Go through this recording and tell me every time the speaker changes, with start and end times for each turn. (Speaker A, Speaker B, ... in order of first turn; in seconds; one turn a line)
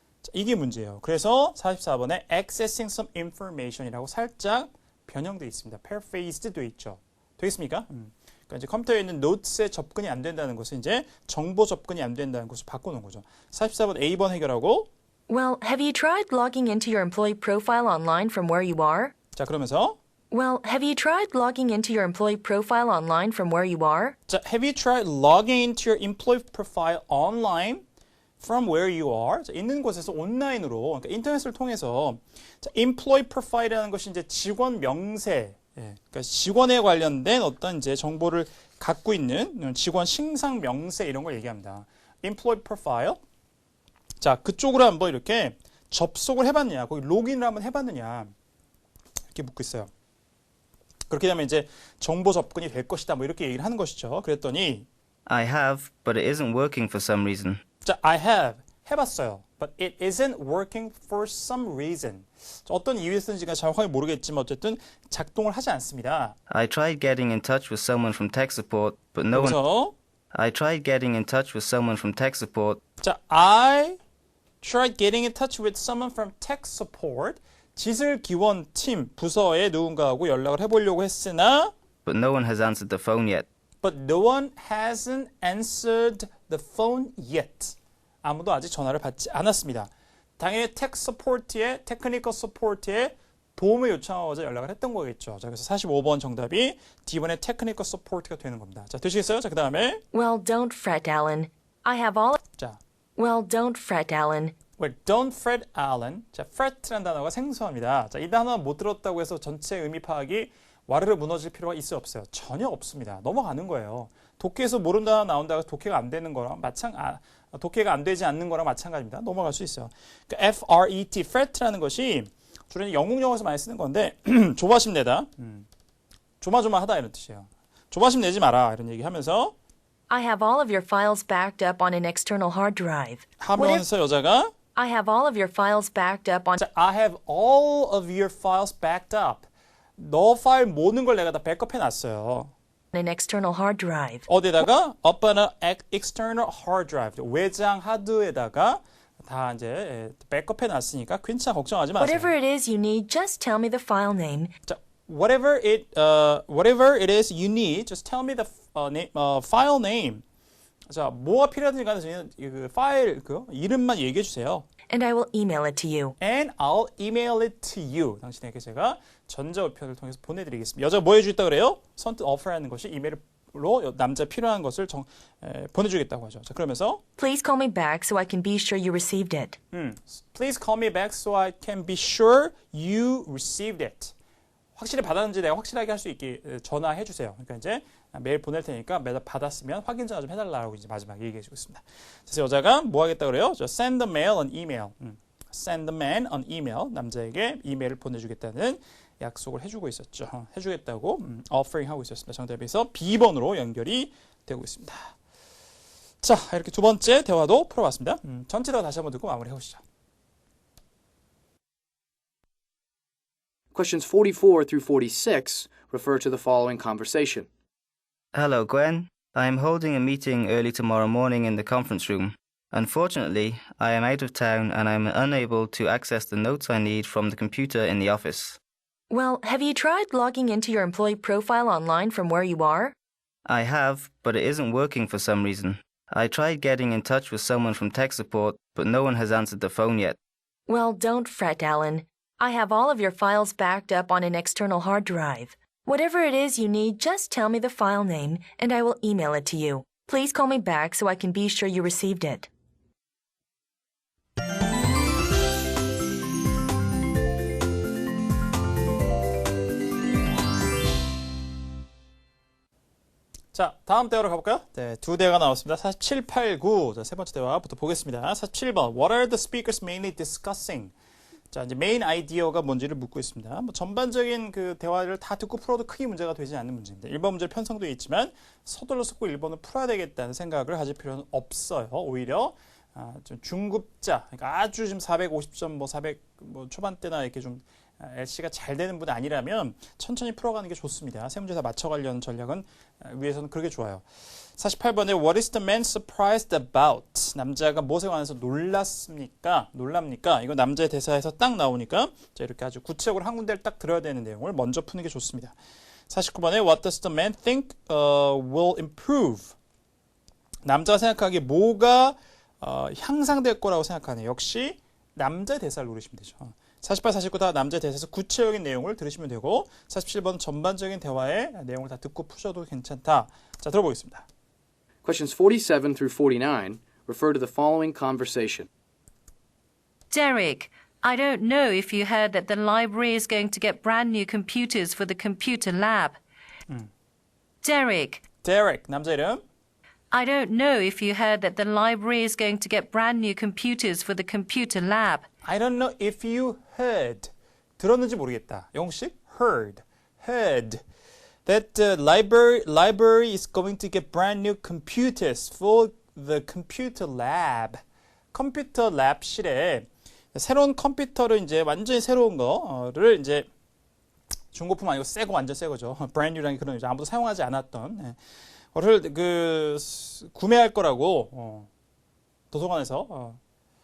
Speaker A: 0.2-14.9
Speaker B: 15.3-19.1
Speaker A: 19.4-20.0
Speaker B: 20.3-24.2
Speaker A: 24.3-27.8
Speaker A: 28.4-43.2
Speaker A: 44.2-48.3
Speaker A: 49.3-49.9
Speaker A: 51.1-54.9
Speaker C: 55.2-57.6
Speaker A: 57.8-66.3
Speaker C: 66.5-69.6
Speaker A: 69.3-69.9
Speaker C: 70.3-72.8
Speaker A: 73.0-74.0
Speaker A: 74.6-81.7
Speaker C: 82.0-83.5
Speaker A: 83.8-100.0
Speaker B: 100.1-102.4
Speaker B: 103.2-104.6
Speaker A: 104.8-125.7
Speaker A: 126.4-129.5
Speaker B: 130.1-133.8
Speaker A: 133.4-134.5
Speaker B: 134.7-136.6
Speaker A: 136.6-142.5
Speaker B: 142.9-144.2
Speaker A: 144.3-152.3
Speaker B: 152.0-154.5
Speaker A: 154.7-160.2
Speaker A: 160.9-164.7
Speaker B: 164.9-166.2
Speaker A: 166.2-177.0
Speaker B: 177.2-179.6
Speaker A: 179.7-184.1
Speaker A: 184.8-205.1
Speaker A: 206.2-209.8
Speaker D: 213.7-217.5
Speaker C: 218.3-228.6
Speaker B: 229.1-232.9
Speaker C: 233.4-240.2
Speaker B: 240.7-252.5
Speaker A: 263.5-270.9
Speaker A: 271.5-294.0
Speaker A: 294.6-305.5
Speaker A: 306.1-309.5
Speaker A: 310.6-324.3
Speaker D: 325.0-328.7
Speaker E: 330.1-336.2
Speaker E: 337.6-338.2
Speaker A: 338.4-339.4
Speaker E: 340.1-345.3
Speaker A: 345.4-350.8
Speaker A: 351.4-357.8
Speaker A: 358.3-363.5
Speaker A: 364.5-368.2
Speaker A: 368.7-371.7
Speaker A: 372.5-373.4